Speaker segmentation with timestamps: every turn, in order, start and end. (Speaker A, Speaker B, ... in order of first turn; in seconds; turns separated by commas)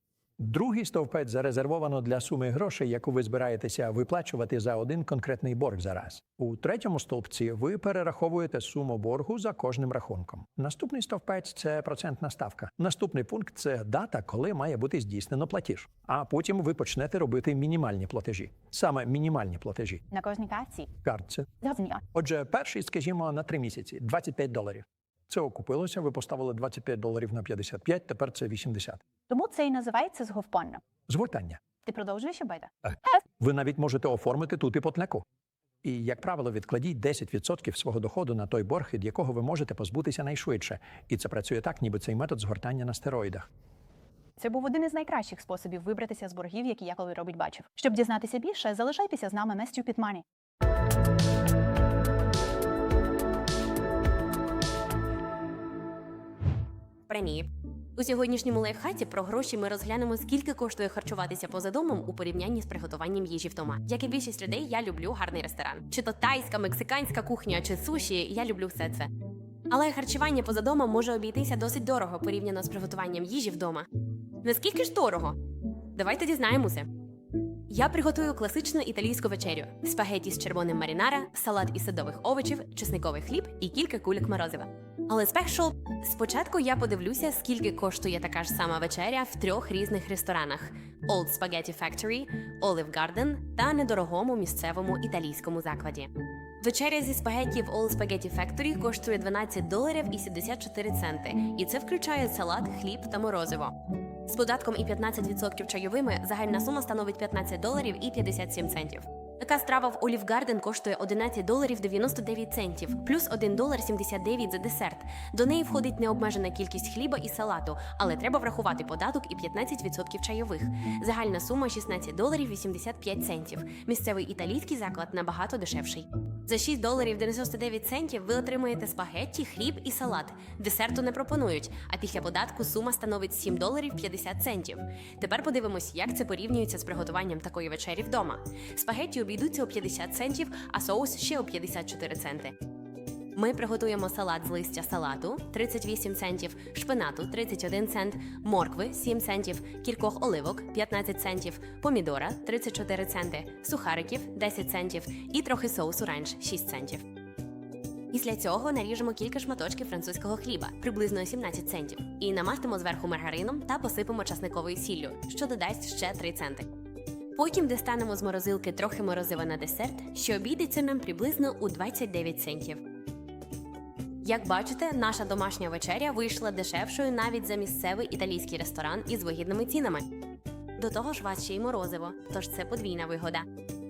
Speaker A: 0.4-20.0, Speaker B: 20.1-20.9, Speaker A: 21.0-21.5, Speaker B: 21.6-22.0, Speaker A: 22.1-29.0, Speaker B: 29.3-30.8, Speaker A: 31.1-31.6, Speaker B: 31.9-32.7, Speaker A: 32.9-35.2, Speaker A: 35.8-43.5, Speaker B: 44.4-50.2, Speaker C: 57.1-69.1, Speaker C: 69.7-73.9, Speaker C: 74.4-75.4, Speaker C: 75.9-76.9, Speaker C: 77.7-142.6, Speaker C: 143.3-157.0, Speaker C: 158.1-166.7, Speaker C: 167.3-172.8, Speaker C: 174.2-180.1, Speaker C: 180.8-183.5